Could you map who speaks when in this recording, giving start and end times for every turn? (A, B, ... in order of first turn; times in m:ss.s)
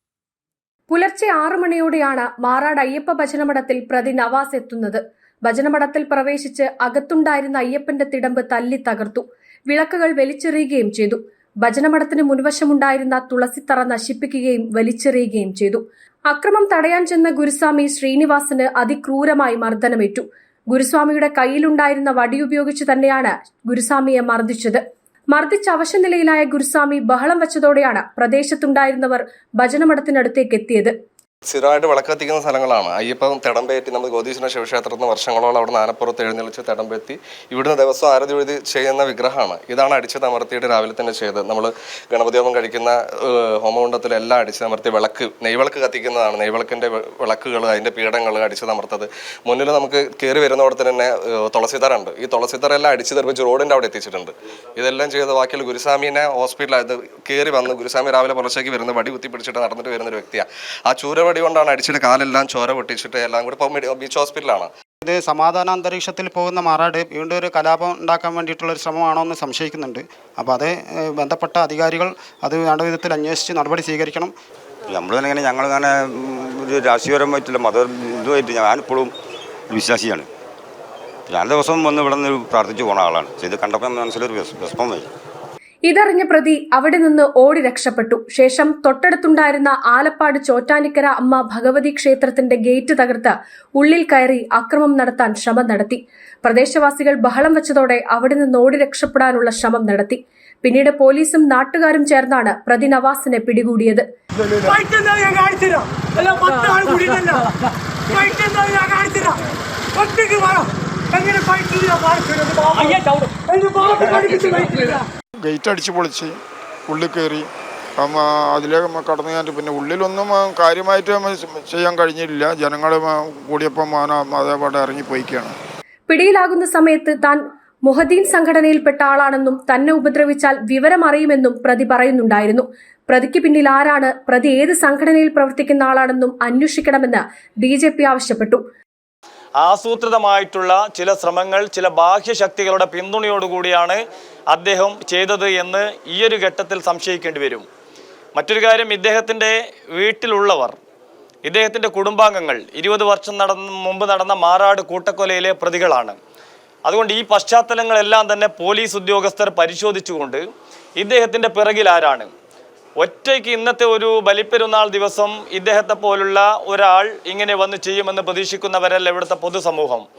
0:00.9-0:30.9 A
0:31.4-1:04.7 B
1:05.0-1:14.3 C
1:14.9-1:19.1 D
1:19.7-1:20.3 D
1:21.3-1:25.0 D
1:25.8-1:44.0 A
1:44.6-1:47.5 E
1:48.1-1:49.4 E
1:49.9-1:55.0 E
1:55.4-2:05.5 F
2:06.1-2:18.6 A
2:19.6-2:24.0 G
2:24.5-2:27.7 G
2:28.3-2:30.8 G
2:31.4-2:36.2 G
2:36.8-2:40.4 G
2:41.0-2:42.3 G
2:43.0-2:50.0 G